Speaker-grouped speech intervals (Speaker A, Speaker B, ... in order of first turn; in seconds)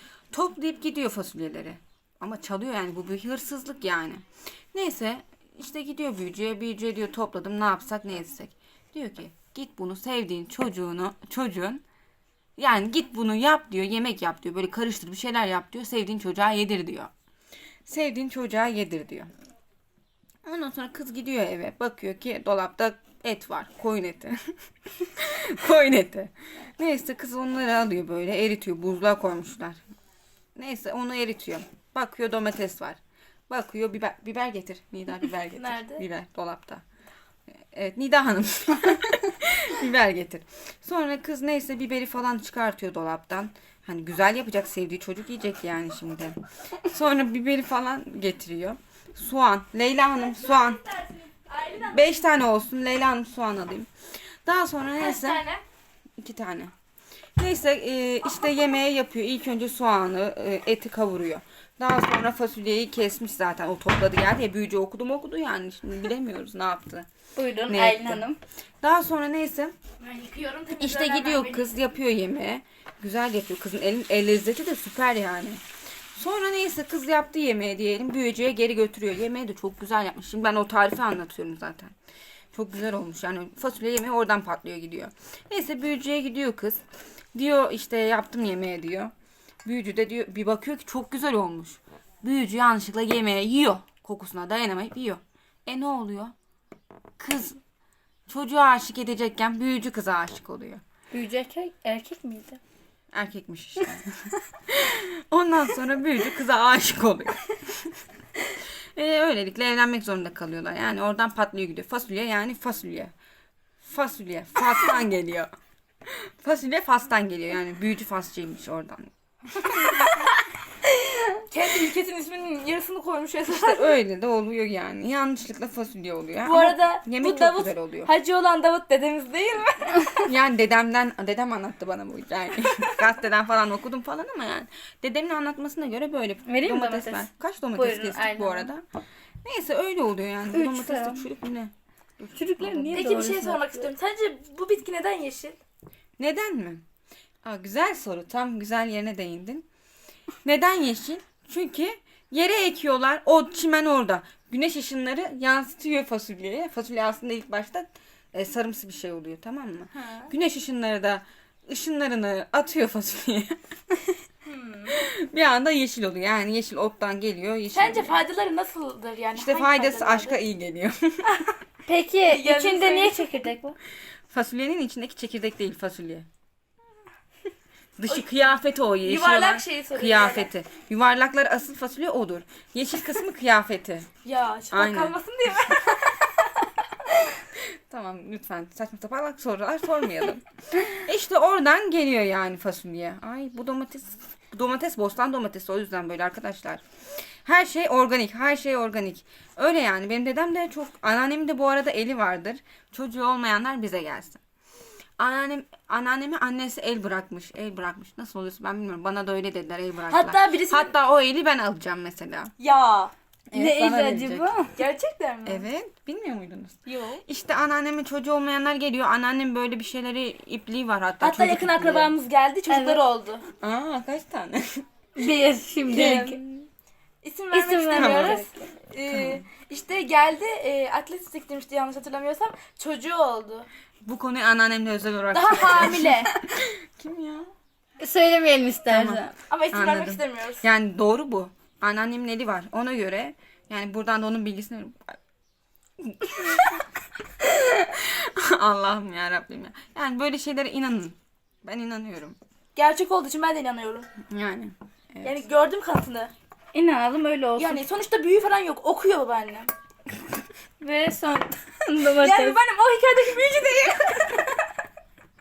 Speaker A: 0.3-11.8, 12.6-17.1, 17.9-19.3, 20.4-24.4, 25.0-29.8, 30.6-36.8, 37.7-50.8, 51.8-53.9, 54.4-55.4, 56.2-56.7, 57.4-67.1, 67.7-68.2, 68.8-69.7, 70.7-75.6, 76.1-81.9, 82.5-86.8, 87.3-89.1, 89.6-96.3, 97.2-97.6, 98.3-100.8, 103.1-104.2, 104.7-108.0, 108.9-113.1, 113.8-115.5, 116.0-120.0, 123.5-128.1, 130.2-138.8, 139.4-143.1, 146.2-146.8, 147.4-149.7, 150.4-163.6, 164.9-168.2, 169.3-171.3, 174.3-176.3, 178.0-184.1, 184.7-185.2, 187.6-204.4, 205.2-212.5, 213.5-214.5, 215.4-222.1, 223.6-224.8, 225.9-226.3, 227.9-228.5, 229.1-229.4, 234.0-237.5, 238.9-245.2, 246.0-246.8, 247.4-252.4, 254.3-255.4
Speaker B: 35.6-36.0, 50.2-52.3, 55.0-55.6, 70.0-71.7, 121.4-124.0, 126.4-130.3, 142.9-145.6, 160.0-160.3, 164.4-165.0, 167.7-170.4, 172.3-173.3, 179.0-180.5, 184.2-187.2, 210.1-210.9, 212.6-213.1, 214.8-215.6, 216.8-217.2, 221.2-223.4, 225.9-226.4, 227.2-233.7, 235.3-236.3, 239.5-240.6, 252.8-254.1, 255.2-256.3, 257.6-259.7, 262.1-264.6
Speaker C: 67.3-68.4, 101.1-102.6, 136.5-138.7, 140.5-141.2, 142.3-143.9, 171.8-173.8, 213.5-214.8, 222.7-223.0, 225.2-226.4, 227.5-228.5, 238.0-239.3, 256.7-257.8, 260.8-262.6